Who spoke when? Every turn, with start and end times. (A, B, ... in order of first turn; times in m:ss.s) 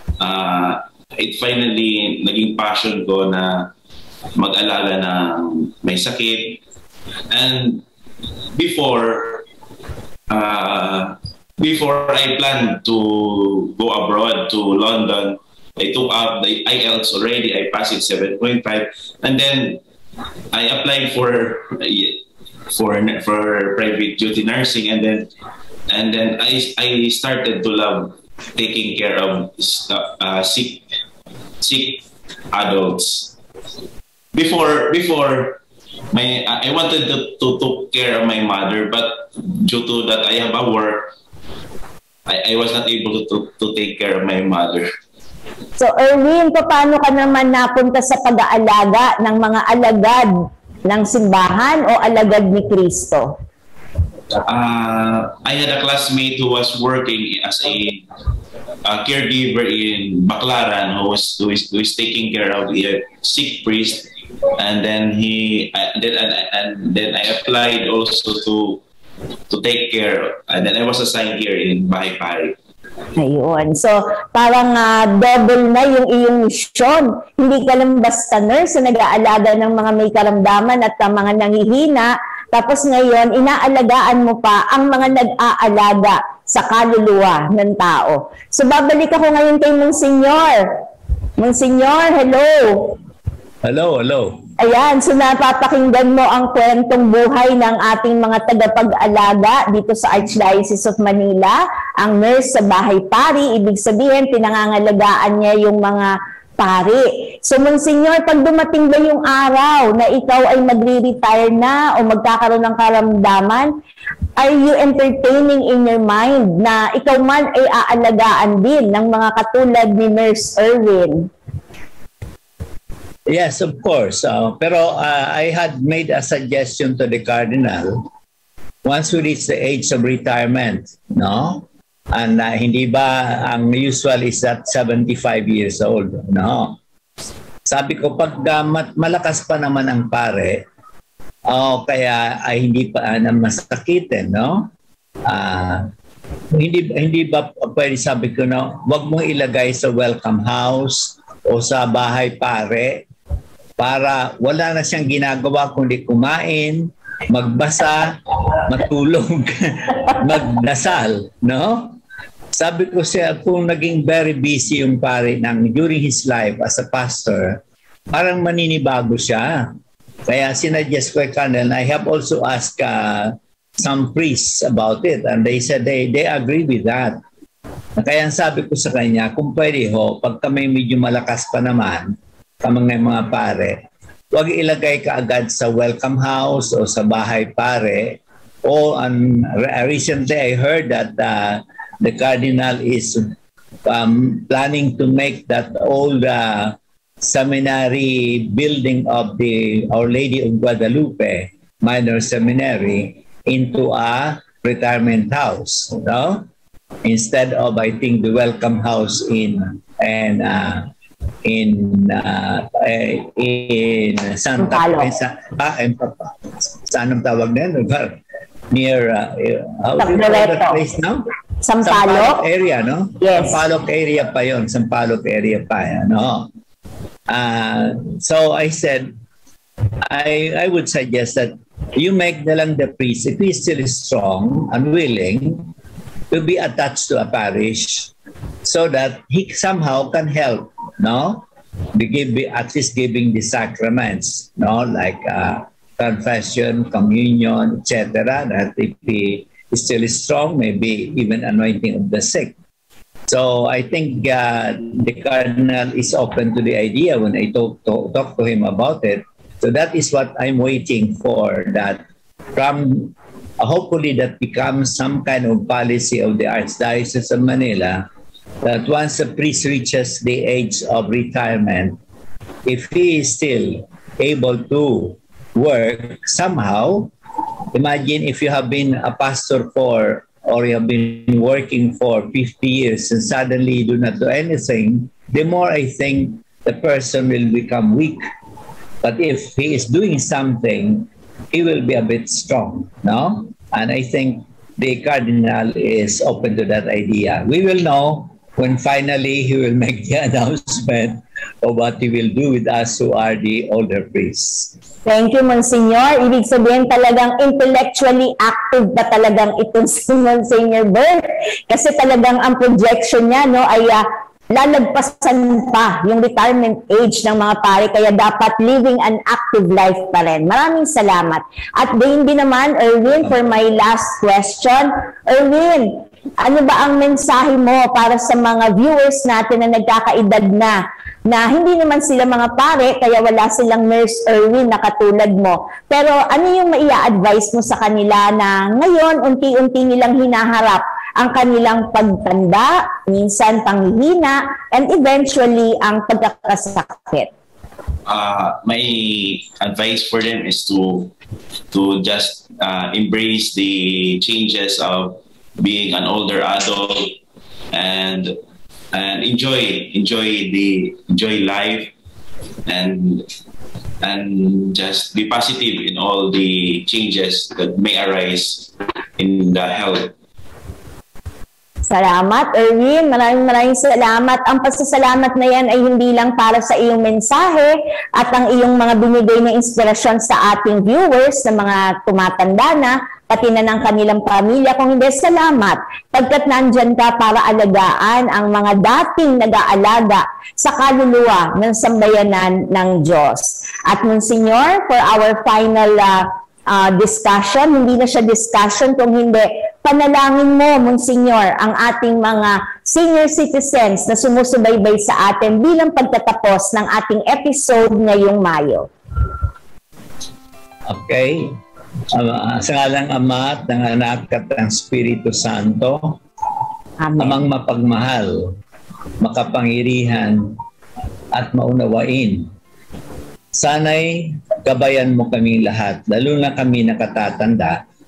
0:00.2-0:03.7 A
0:04.3-0:06.6 A
0:07.3-0:07.8 A
0:08.5-0:09.4 A
0:10.3-0:19.8 A
0:20.5-0:22.2 A
0:22.7-0:25.3 A
0:25.9-0:30.8 A
0:31.6-0:33.3 A
0:34.3-0:35.6 A
0:36.1-0:41.1 A
0:42.2-0:44.9 A
0:45.8-0:50.3 B
0:50.9-0:53.3 B
0:54.5-0:58.0 A
0:58.8-1:08.8 A
1:09.5-1:12.5 A
1:13.2-1:30.8 B
1:31.4-1:33.0 B
1:33.6-1:34.4 C
1:34.6-1:53.7 B
1:54.4-2:01.3 B
2:03.3-2:08.1 C
2:08.8-2:16.8 C
2:17.6-2:20.6 C
2:21.5-2:24.7 C
2:25.2-2:25.9 C
2:26.5-2:33.0 C
2:33.8-2:42.0 C
2:42.5-2:49.7 C
2:50.3-2:57.2 C
2:58.0-3:13.3 C
3:13.8-3:26.4 C
3:27.0-3:30.9 C
3:31.4-3:38.2 C
3:34.6-3:35.1 B
3:38.7-3:41.2 C
3:40.0-3:40.8 B
3:41.6-3:42.4 B
3:41.8-3:46.5 C
3:43.2-3:43.6 B
3:47.3-3:49.1 C
3:50.0-3:55.7 C
3:56.3-3:58.1 C
3:58.6-4:12.5 C
4:13.3-4:22.0 C
4:22.5-4:28.0 C
4:28.6-4:32.0 C
4:32.6-4:37.1 C
4:37.7-4:48.2 C
4:49.0-5:04.7 C
5:05.0-5:30.8 B
5:31.3-5:47.3 B
5:48.0-5:51.1 A
5:51.7-5:57.2 A
5:57.7-5:58.4 A
5:58.9-6:01.9 A
6:02.6-6:03.3 A
6:04.0-6:10.1 A
6:11.9-6:48.9 B
6:50.9-6:51.6 C
6:52.1-6:56.2 C
6:57.0-6:57.4 B
6:57.2-6:58.5 C
6:59.2-7:00.6 C
7:01.3-7:02.5 C
7:03.5-7:07.8 C